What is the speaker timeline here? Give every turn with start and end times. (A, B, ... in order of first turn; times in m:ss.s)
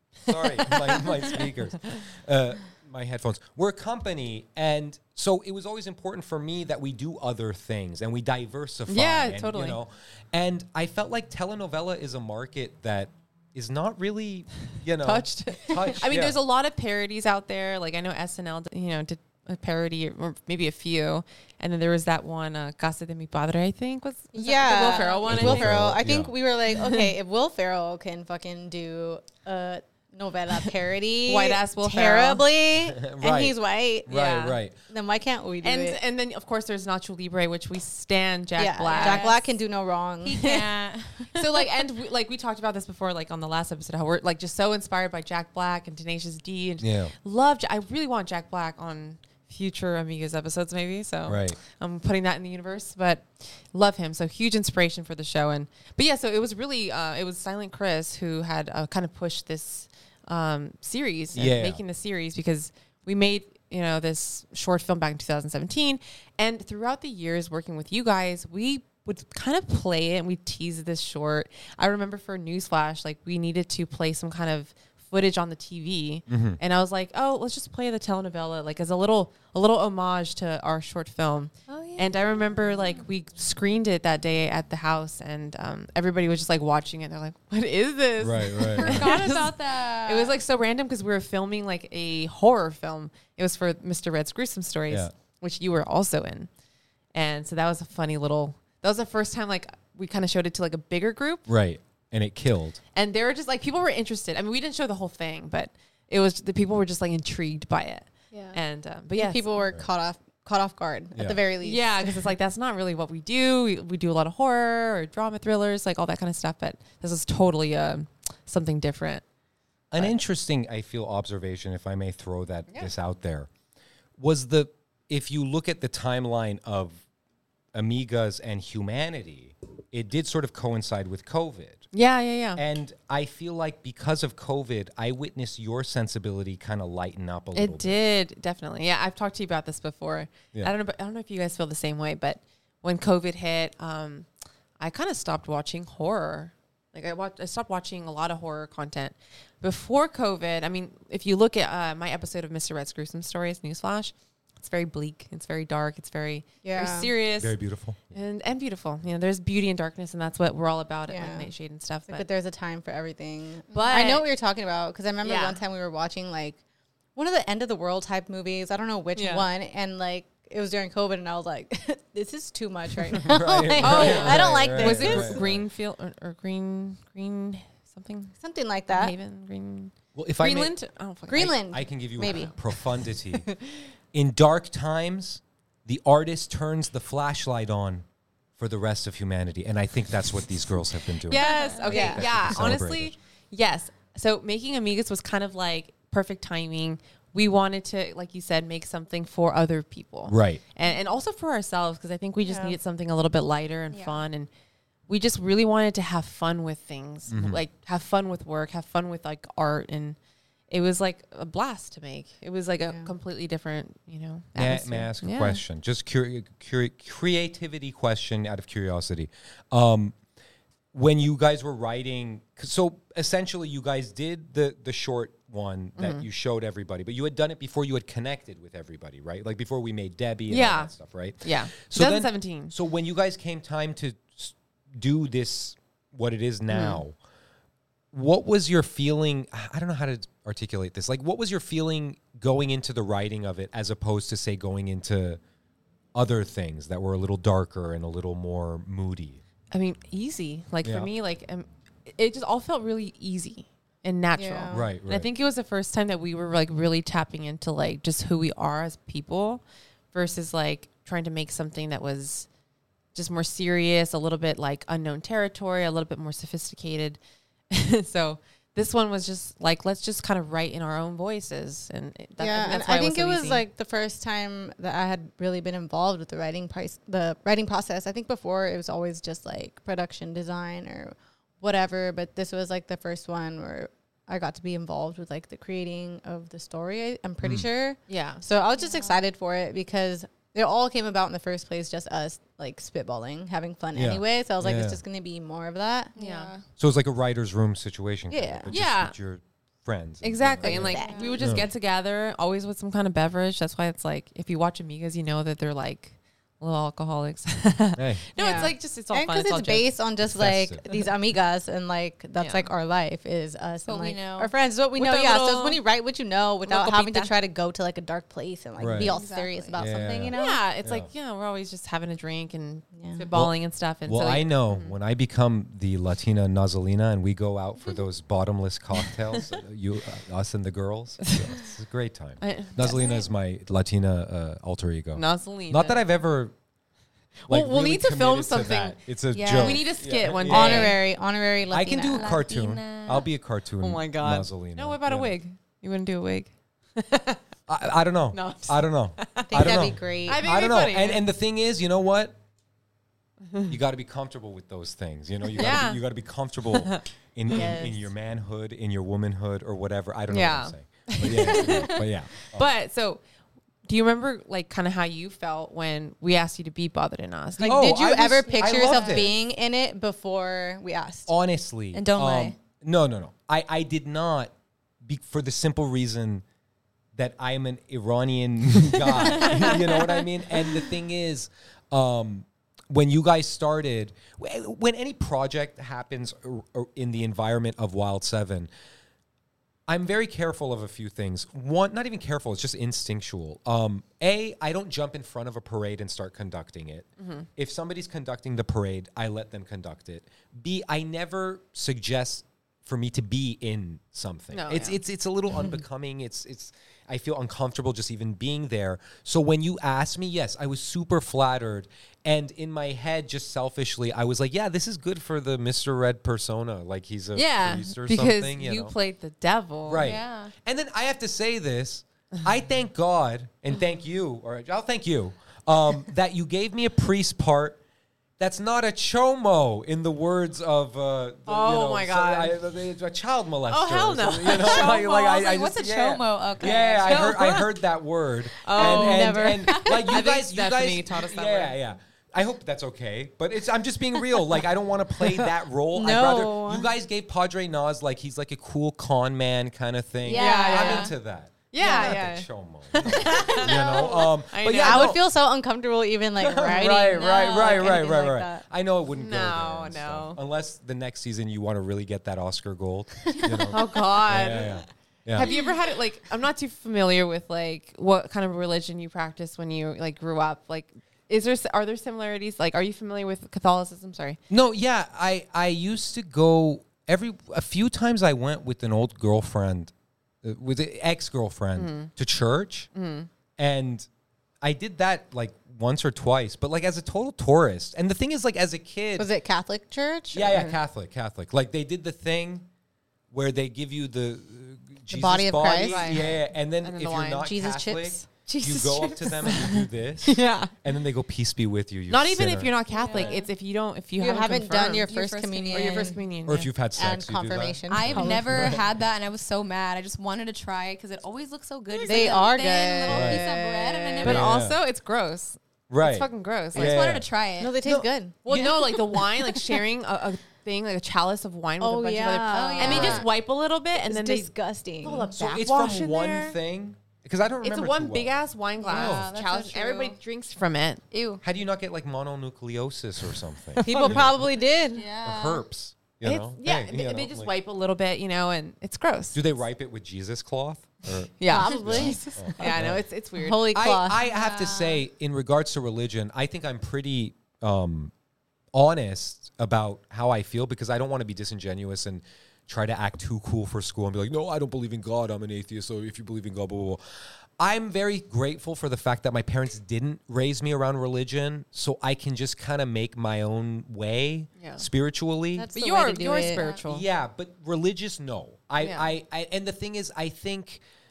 0:00.3-0:16.4 A
0:00.6-0:01.0 B
0:08.9-0:09.8 B
0:15.0-0:25.8 B
0:24.3-0:34.1 C
0:25.3-0:26.3 A
0:26.8-0:27.1 B
0:31.3-0:32.5 B
0:32.8-0:34.8 A
0:34.1-0:34.6 B
0:34.9-0:36.0 C
0:35.6-0:39.3 B
0:38.6-0:40.6 C
0:38.9-0:39.5 D
0:40.2-0:41.6 D
0:40.4-0:40.6 B
0:41.3-1:36.5 B
0:46.8-0:47.1 A
0:51.3-0:51.6 A
1:01.4-1:01.8 A
1:16.3-1:16.6 A
1:21.7-1:23.0 D
1:28.2-1:29.1 A
1:28.7-1:30.4 D
1:37.1-1:41.4 B
1:41.5-1:42.8 A
1:43.0-1:49.5 B
1:48.3-1:48.6 D
1:49.2-1:52.3 C
1:51.1-1:51.4 A
1:51.6-1:59.2 B
1:59.9-2:03.5 A
2:04.2-2:07.0 A
2:07.7-2:11.9 A
2:11.9-2:12.6 B
2:12.6-2:18.0 A
2:17.6-2:24.3 B
2:24.8-2:37.6 B
2:36.6-2:37.1 C
2:37.4-2:38.0 A
2:38.1-2:42.3 B
2:41.1-2:41.5 C
2:42.1-2:46.6 C
2:43.7-2:44.3 B
2:45.2-2:45.6 B
2:47.2-2:55.4 C
2:49.2-2:49.5 B
2:53.2-2:55.6 A
2:53.8-2:58.4 B
2:58.4-2:59.2 C
2:58.9-3:01.6 B
3:00.2-3:00.8 A
3:01.3-3:02.5 C
3:01.4-3:03.5 A
3:04.1-3:08.0 A
3:08.6-3:13.2 A
3:11.3-3:24.5 B
3:11.3-3:12.0 D
3:11.9-3:12.7 C
3:20.3-3:20.6 A
3:20.8-3:21.1 D
3:22.4-3:22.8 C
3:23.9-3:24.2 D
3:25.1-3:30.2 B
3:27.3-3:27.6 A
3:30.7-3:35.6 B
3:34.6-3:40.2 A
3:40.9-3:57.2 A
3:46.0-3:46.2 B
3:50.5-3:52.8 B
3:56.7-3:57.0 B
3:58.1-4:05.4 A
4:06.1-4:09.4 A
4:09.7-4:22.5 B
4:10.8-4:11.1 A
4:14.4-4:14.9 C
4:14.7-4:15.3 A
4:23.1-4:27.2 B
4:27.7-4:33.6 B
4:32.4-4:56.1 C
4:47.4-4:47.7 A
4:48.1-4:48.4 B
4:48.8-4:49.2 D
4:54.0-4:55.0 A
4:56.2-4:56.6 D
4:56.2-4:56.5 B
4:56.8-5:01.7 A
4:58.3-4:58.7 C
4:58.7-4:59.2 B
5:00.2-5:09.9 B
5:00.6-5:01.4 C
5:01.0-5:01.4 D
5:08.0-5:08.2 A
5:08.4-5:20.6 C
5:10.2-5:10.8 A
5:12.4-5:12.7 B
5:13.8-5:14.5 D
5:15.0-5:15.8 B
5:16.7-5:17.3 B
5:18.8-5:19.2 A
5:19.0-5:19.8 D
5:19.8-5:21.1 A
5:20.3-5:25.0 B
5:23.0-5:23.3 C
5:24.0-5:36.5 A
5:32.4-5:33.2 B
5:33.0-5:33.3 D
5:35.2-5:36.1 B
5:37.4-5:41.0 B
5:37.5-5:41.0 A
5:39.3-5:39.8 D
5:40.5-5:42.3 C
5:41.7-5:45.4 A
5:42.1-5:43.3 D
5:43.8-5:47.4 B
5:47.7-5:52.4 A
5:48.3-5:51.3 B
5:49.5-5:50.5 C
5:53.5-5:53.8 B
5:53.7-6:02.7 A
5:55.5-5:56.0 B
5:56.8-5:57.7 B
5:57.5-5:58.1 C
6:00.3-6:03.2 B
6:03.9-6:07.9 B
6:07.6-6:11.3 C
6:07.6-6:09.3 A
6:08.5-6:09.3 D
6:11.3-6:16.4 A
6:11.9-6:12.6 D
6:17.2-6:28.7 A
6:19.2-6:20.0 B
6:29.9-6:59.0 A
6:37.2-6:37.5 B
6:44.5-6:45.0 B
6:57.4-7:00.1 B
6:59.9-7:07.8 A
7:00.0-7:00.5 D
7:08.4-7:35.2 A
7:11.5-7:12.6 B
7:13.7-7:15.5 B
7:14.5-7:17.6 D
7:16.6-7:17.7 B
7:18.6-7:21.8 B
7:18.8-7:20.0 C
7:25.9-7:26.9 C
7:30.2-7:31.1 D
7:30.3-7:31.2 B
7:31.7-7:35.2 B
7:31.8-7:32.1 C
7:33.4-7:34.1 D
7:34.7-7:38.6 C
7:36.4-7:45.5 A
7:37.3-7:37.8 D
7:39.2-7:40.4 B
7:43.6-7:44.8 B
7:45.4-7:54.4 B
7:54.5-7:59.9 A
8:00.4-8:02.9 A
8:01.8-8:02.1 B
8:02.9-8:03.3 B
8:03.6-8:04.1 A
8:04.6-8:09.3 A
8:09.2-8:10.8 C
8:10.3-8:12.7 A
8:13.3-8:23.4 A
8:15.1-8:16.2 C
8:15.9-8:17.5 B
8:17.4-8:18.3 C
8:18.5-8:19.6 D
8:18.5-8:19.7 B
8:22.1-8:25.2 B
8:22.9-8:23.5 D
8:24.2-8:26.2 C
8:25.0-8:26.1 D
8:25.7-8:26.7 B
8:26.5-8:28.9 A
8:27.0-8:28.8 C
8:27.9-8:34.5 D
8:32.1-8:34.4 C
8:33.1-8:33.4 A
8:34.2-8:37.0 B
8:34.2-8:34.8 A
8:35.9-8:37.3 A
8:36.7-8:37.8 D
8:37.6-8:38.7 C
8:37.8-8:38.1 A
8:38.5-8:44.5 B
8:41.8-8:43.3 C
8:42.5-8:43.2 D
8:42.9-8:43.2 A
8:44.0-8:45.3 C
8:45.0-8:46.6 B
8:45.3-8:48.4 A
8:47.6-8:51.0 B
8:48.8-8:50.2 D
8:48.9-8:49.3 A
8:51.1-8:51.4 D
8:51.4-8:54.5 A
8:53.8-8:55.1 C
8:53.9-8:54.1 B
8:54.9-8:55.6 D
8:55.2-8:57.5 A
8:56.2-8:59.5 B
8:59.3-9:03.0 A
9:01.4-9:03.7 B
9:01.5-9:04.2 C
9:03.7-9:08.1 A
9:04.2-9:05.0 D
9:08.7-9:17.0 A
9:17.6-9:25.7 A
9:24.6-9:24.8 B
9:25.6-9:26.6 C
9:25.8-9:27.1 B
9:26.3-9:26.8 D
9:26.8-9:30.8 A
9:28.8-9:29.2 B